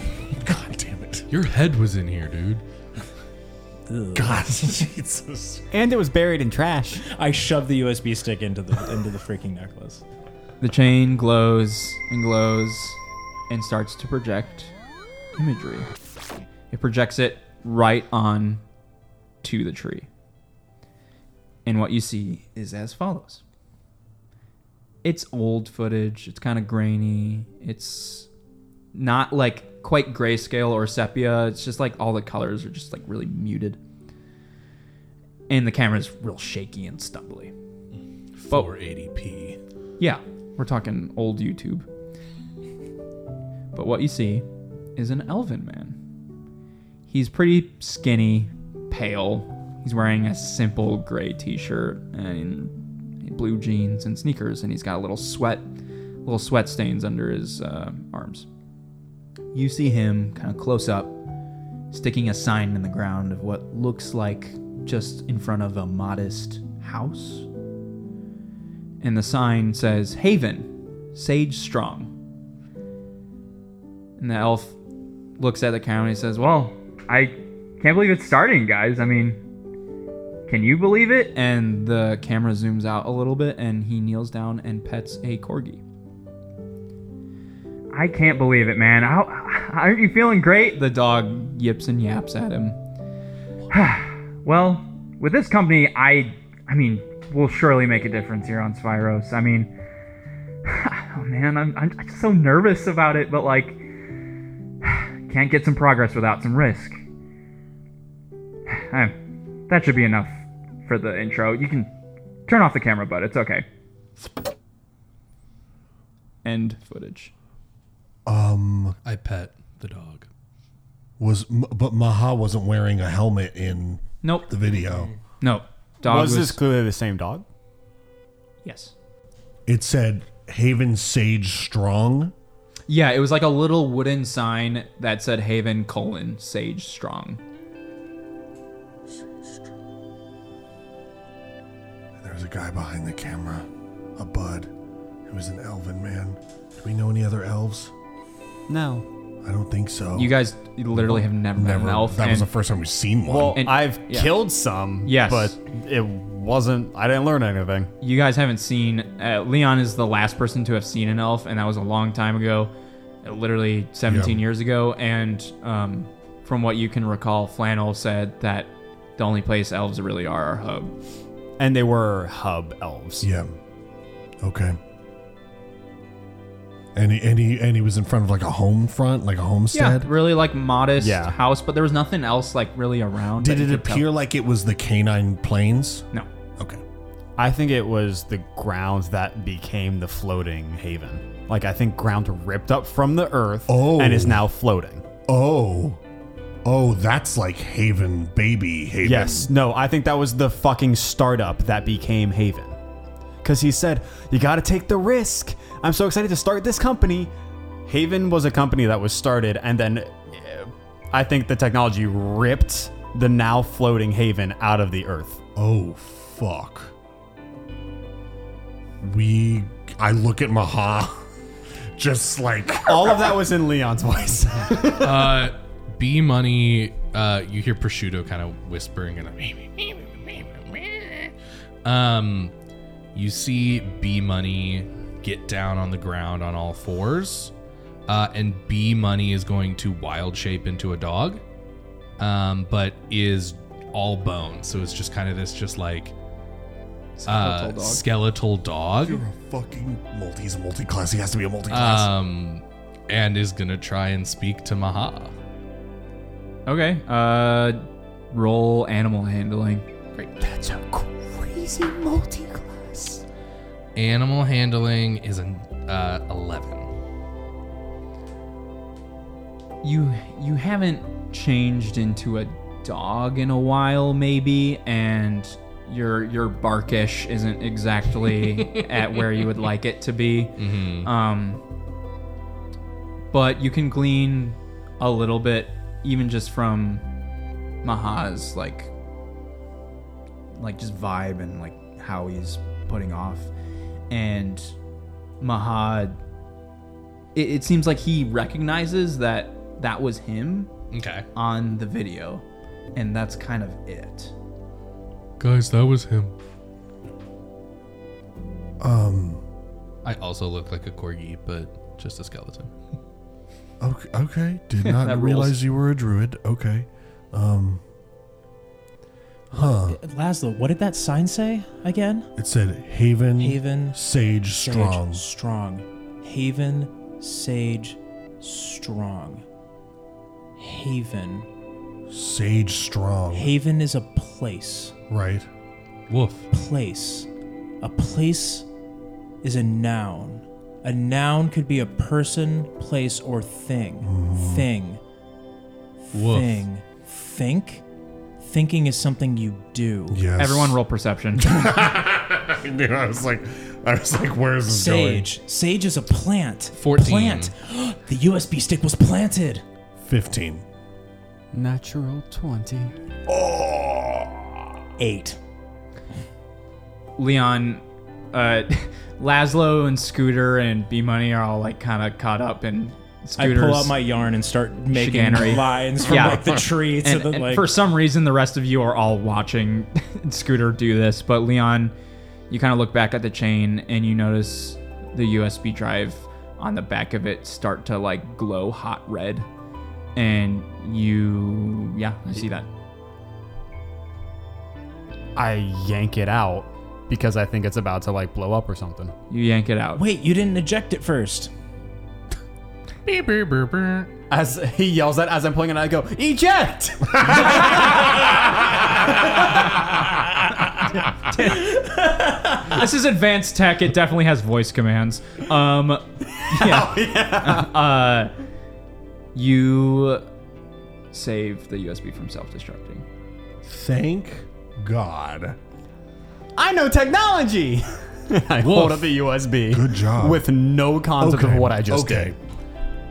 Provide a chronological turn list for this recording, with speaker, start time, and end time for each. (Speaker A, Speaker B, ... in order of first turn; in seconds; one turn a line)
Speaker A: 0.4-1.3
Speaker B: 1.3-2.6
Speaker C: 3.9-4.9
Speaker A: 4.1-5.7
Speaker D: 5.7-7.0
Speaker C: 7.0-10.0
Speaker E: 10.6-14.7
Speaker E: 15.3-15.9
Speaker E: 16.7-18.6
Speaker E: 19.4-20.1
Speaker E: 21.6-23.4
Speaker E: 25.0-28.3
Speaker E: 28.9-33.8
Speaker E: 35.5-37.5
Speaker B: 38.3-39.6
Speaker E: 40.0-41.9
Speaker E: 43.7-46.0
Speaker E: 47.1-55.7
Speaker E: 56.2-58.5
Speaker E: 59.5-61.2
Speaker E: 61.9-67.5
Speaker E: 69.0-72.1
Speaker E: 74.2-74.8
Speaker E: 75.4-79.4
Speaker E: 80.5-85.8
Speaker E: 87.9-92.8
Speaker E: 93.7-99.7
Speaker E: 100.6-103.8
Speaker E: 104.8-107.0
Speaker E: 108.7-109.2
Speaker E: 109.7-111.9
Speaker E: 112.5-113.7
Speaker E: 116.4-117.3
Speaker A: 118.2-119.0
Speaker B: 119.0-120.3
Speaker A: 121.2-125.1
Speaker E: 124.2-124.5
Speaker C: 124.8-125.1
Speaker E: 125.4-126.6
Speaker D: 126.0-127.4
Speaker E: 128.6-128.9
Speaker A: 129.7-132.3
Speaker E: 132.9-137.4
Speaker A: 142.2-144.7
Speaker A: 145.3-147.9
Speaker D: 148.7-149.1
Speaker A: 149.4-150.3
Speaker E: 150.1-152.5
Speaker A: 150.9-153.6
Speaker D: 153.3-157.9
Speaker E: 153.6-154.3
Speaker E: 155.0-155.6
Speaker E: 158.0-170.9
Speaker A: 164.1-164.4
Speaker D: 171.6-173.3
Speaker A: 173.2-173.5
Speaker A: 174.4-174.8
Speaker A: 176.9-180.1
Speaker E: 179.7-184.1
Speaker D: 181.0-181.3
Speaker A: 183.4-186.8
Speaker D: 187.4-195.0
Speaker A: 193.7-194.5
Speaker A: 195.3-196.0
Speaker A: 196.6-199.5
Speaker D: 199.0-202.8
Speaker D: 203.4-207.3
Speaker D: 207.8-215.4
Speaker A: 215.6-216.9
Speaker A: 219.0-221.2
Speaker A: 221.9-223.3
Speaker D: 222.8-225.4
Speaker B: 225.0-231.3
Speaker B: 231.8-232.5
Speaker B: 233.1-237.5
Speaker B: 238.1-241.4
Speaker B: 242.2-246.1
Speaker E: 247.2-248.0
Speaker B: 247.3-249.2
Speaker A: 249.0-252.1
Speaker B: 251.7-255.3
Speaker E: 256.6-259.9
Speaker D: 260.4-263.2
Speaker B: 263.9-266.9
Speaker E: 269.8-281.6
Speaker B: 280.6-281.1
Speaker E: 283.3-287.0
Speaker E: 287.8-288.9
Speaker E: 290.5-293.5
Speaker E: 294.1-294.7
Speaker E: 295.4-296.2
Speaker E: 297.3-300.7
Speaker B: 300.9-301.3
Speaker E: 301.3-302.4
Speaker E: 302.9-304.3
Speaker B: 305.4-306.3
Speaker A: 308.8-309.4
Speaker B: 310.0-312.7
Speaker A: 313.8-317.8
Speaker E: 314.8-315.6
Speaker A: 319.5-320.0
Speaker C: 319.5-322.3
Speaker A: 322.4-325.2
Speaker C: 323.4-324.0
Speaker C: 324.5-329.4
Speaker C: 330.6-331.5
Speaker A: 332.1-333.5
Speaker C: 333.3-334.9
Speaker A: 335.1-335.4
Speaker B: 336.1-336.5
Speaker C: 336.5-337.3
Speaker C: 337.8-338.6
Speaker C: 339.4-345.0
Speaker A: 344.0-344.7
Speaker C: 346.1-347.8
Speaker B: 346.1-346.6
Speaker C: 348.4-350.3
Speaker A: 350.1-350.8
Speaker E: 350.4-351.6
Speaker A: 351.4-355.3
Speaker C: 354.6-359.6
Speaker B: 356.7-357.5
Speaker A: 360.0-360.6
Speaker D: 361.5-362.9
Speaker A: 363.3-364.5
Speaker C: 365.0-365.4
Speaker E: 367.2-374.0
Speaker C: 373.4-377.7
Speaker E: 374.9-381.9
Speaker E: 382.5-389.5
Speaker E: 390.1-392.7
Speaker D: 395.4-399.1
Speaker E: 399.3-400.0
Speaker C: 399.9-401.5
Speaker B: 403.1-404.1
Speaker D: 404.3-409.8
Speaker A: 407.2-408.0
Speaker C: 411.9-412.6
Speaker E: 412.6-418.3
Speaker D: 416.4-417.7
Speaker E: 419.3-420.2
Speaker E: 421.1-423.0
Speaker A: 423.7-425.6
Speaker D: 426.6-432.4
Speaker B: 428.6-429.1
Speaker A: 429.7-430.4
Speaker A: 431.2-432.4